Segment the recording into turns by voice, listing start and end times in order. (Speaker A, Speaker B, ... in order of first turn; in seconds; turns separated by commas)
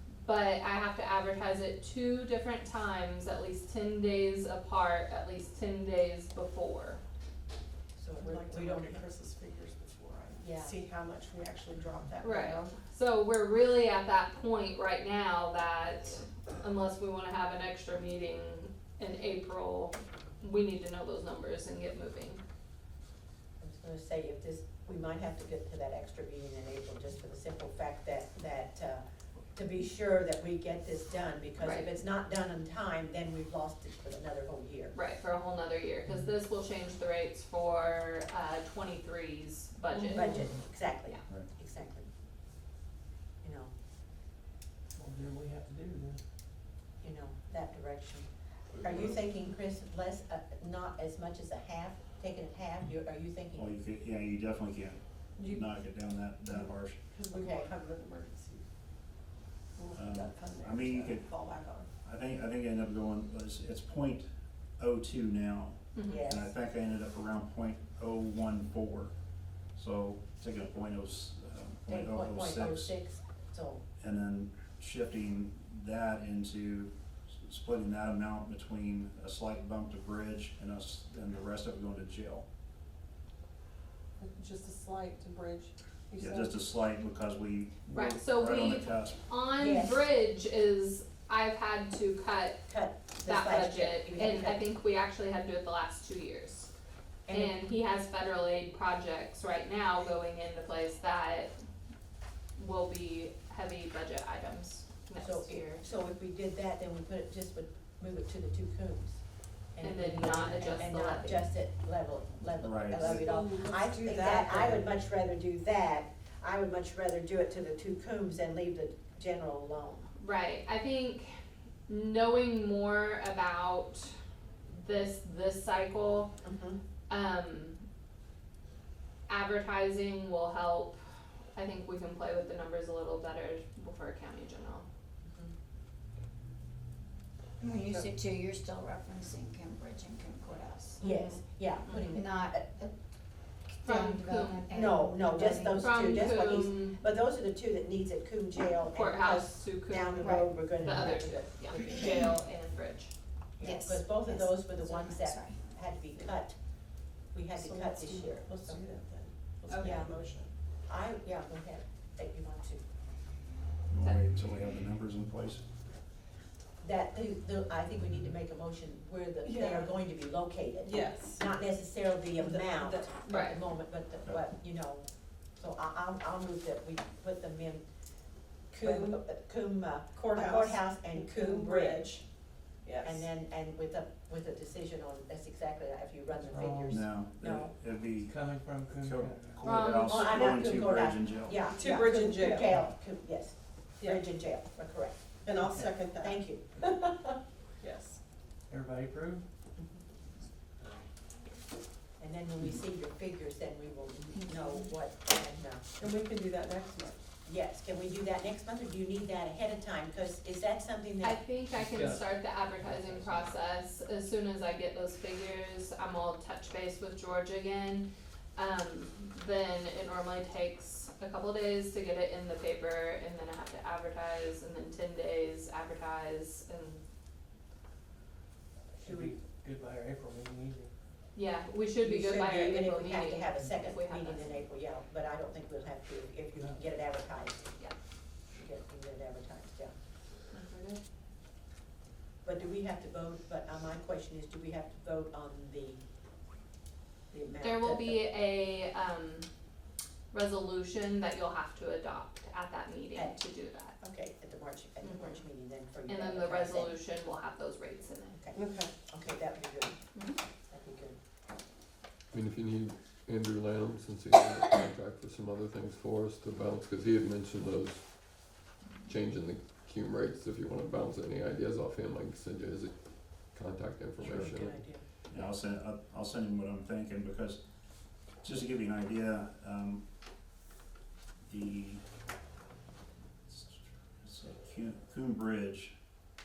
Speaker A: 0.2-7.0, Speaker B: 8.0-9.0, Speaker C: 8.2-12.7, Speaker B: 10.4-10.8, Speaker A: 12.2-22.4, Speaker B: 23.6-29.0, Speaker B: 29.5-35.0, Speaker A: 31.6-31.9, Speaker A: 34.9-40.3, Speaker C: 39.9-40.3, Speaker B: 40.1-42.1, Speaker B: 43.4-43.7, Speaker D: 45.0-46.2, Speaker B: 47.0-48.3, Speaker E: 48.8-49.1, Speaker B: 48.8-53.8, Speaker E: 53.5-57.0, Speaker C: 57.1-58.6, Speaker B: 57.3-57.7, Speaker C: 59.7-61.9, Speaker E: 59.9-64.3, Speaker E: 64.8-69.2, Speaker A: 65.9-66.2, Speaker B: 66.0-66.5, Speaker E: 69.7-72.9, Speaker B: 71.9-73.8, Speaker E: 74.0-82.4, Speaker C: 84.2-86.6, Speaker E: 86.2-89.2, Speaker A: 87.9-92.6, Speaker B: 89.6-90.1, Speaker B: 92.7-94.6, Speaker A: 93.2-96.7, Speaker B: 97.2-97.6, Speaker A: 97.3-101.5, Speaker A: 102.5-105.8, Speaker B: 105.2-120.1, Speaker A: 109.8-111.4, Speaker E: 112.6-113.4, Speaker C: 113.0-114.8, Speaker A: 120.2-121.3, Speaker A: 121.9-124.1, Speaker A: 124.7-126.3, Speaker B: 126.4-126.8, Speaker A: 127.1-127.8, Speaker A: 129.3-131.0, Speaker A: 131.5-134.8, Speaker B: 135.2-135.5, Speaker F: 137.6-141.0, Speaker B: 141.0-142.7, Speaker A: 141.0-142.2, Speaker F: 142.1-142.9, Speaker F: 143.7-146.2, Speaker A: 143.8-144.7, Speaker B: 144.7-152.2, Speaker A: 145.8-147.0, Speaker A: 148.9-153.1, Speaker F: 150.2-150.6, Speaker F: 151.8-152.2, Speaker B: 153.6-156.6, Speaker F: 153.6-155.7, Speaker B: 157.2-158.8, Speaker C: 157.6-160.5, Speaker A: 159.7-160.0, Speaker B: 159.8-160.2, Speaker B: 160.8-162.8, Speaker E: 163.9-165.6, Speaker B: 166.8-177.8, Speaker C: 169.4-169.9, Speaker C: 170.8-171.4, Speaker C: 172.4-173.4, Speaker A: 173.2-173.6, Speaker B: 178.7-182.1, Speaker C: 178.8-179.2, Speaker C: 180.2-182.2, Speaker C: 182.8-183.2, Speaker B: 183.0-187.7, Speaker D: 186.4-187.1, Speaker C: 186.6-186.8, Speaker E: 186.9-188.4, Speaker D: 188.2-189.6, Speaker E: 188.9-191.6, Speaker A: 189.6-190.2, Speaker B: 189.8-195.3, Speaker C: 191.6-192.7, Speaker C: 195.4-196.5, Speaker D: 195.6-196.0, Speaker B: 196.1-197.4, Speaker C: 197.8-198.2, Speaker D: 198.7-199.4, Speaker B: 202.2-205.8, Speaker F: 204.3-204.9, Speaker C: 206.0-207.2, Speaker B: 207.4-211.4, Speaker A: 211.2-227.0, Speaker D: 211.7-213.5, Speaker D: 229.0-230.9, Speaker B: 229.0-229.3, Speaker A: 231.3-234.5, Speaker B: 232.0-237.7, Speaker B: 238.5-239.9, Speaker A: 240.5-241.0, Speaker B: 242.4-246.0, Speaker B: 247.3-248.2, Speaker A: 247.6-249.5, Speaker A: 250.3-253.9, Speaker B: 253.1-253.4, Speaker B: 254.0-257.0, Speaker A: 255.0-255.4, Speaker A: 256.1-258.4, Speaker B: 258.3-261.2, Speaker C: 258.5-258.9, Speaker G: 262.3-274.9, Speaker B: 274.2-275.0, Speaker E: 274.2-274.5, Speaker E: 275.3-277.6, Speaker E: 278.2-280.0, Speaker E: 281.4-282.0, Speaker E: 283.5-285.9